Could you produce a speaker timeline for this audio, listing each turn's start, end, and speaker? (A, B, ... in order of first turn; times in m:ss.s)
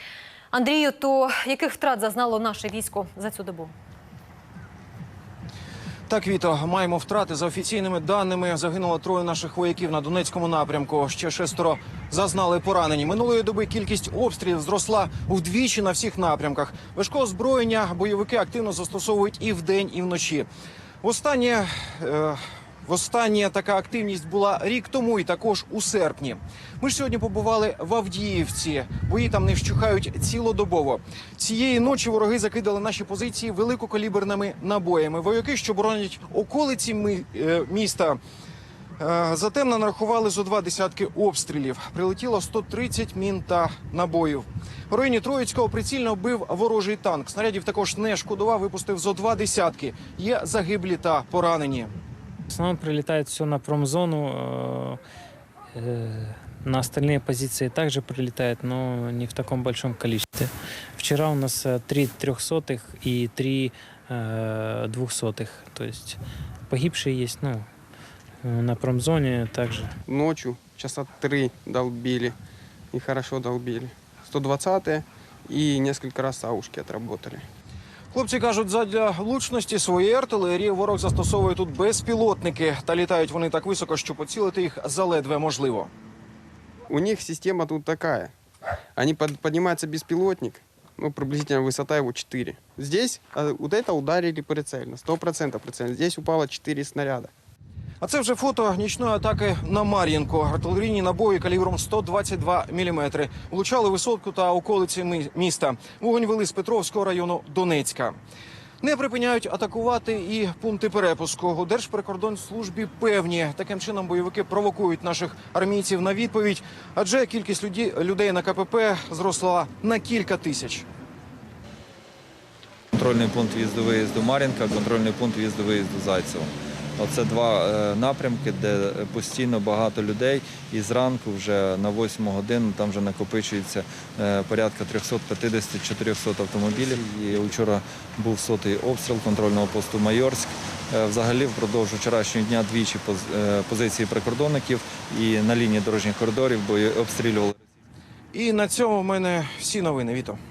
0:00.5-0:03.7 A
0:06.1-0:20.5 B
0:21.0-0:38.2 B
0:39.0-0:51.9 B
0:52.5-0:55.0 C
0:55.7-1:06.2 C
1:06.7-1:07.7 C
1:08.4-1:09.9 C
1:10.1-1:12.4 D
1:12.9-1:17.4 D
1:18.1-1:25.9 B
1:26.9-1:28.3 D
1:28.9-1:37.3 D
1:38.0-1:48.2 B
1:48.8-2:00.8 B
2:02.9-2:27.6 E
2:28.3-2:30.4 B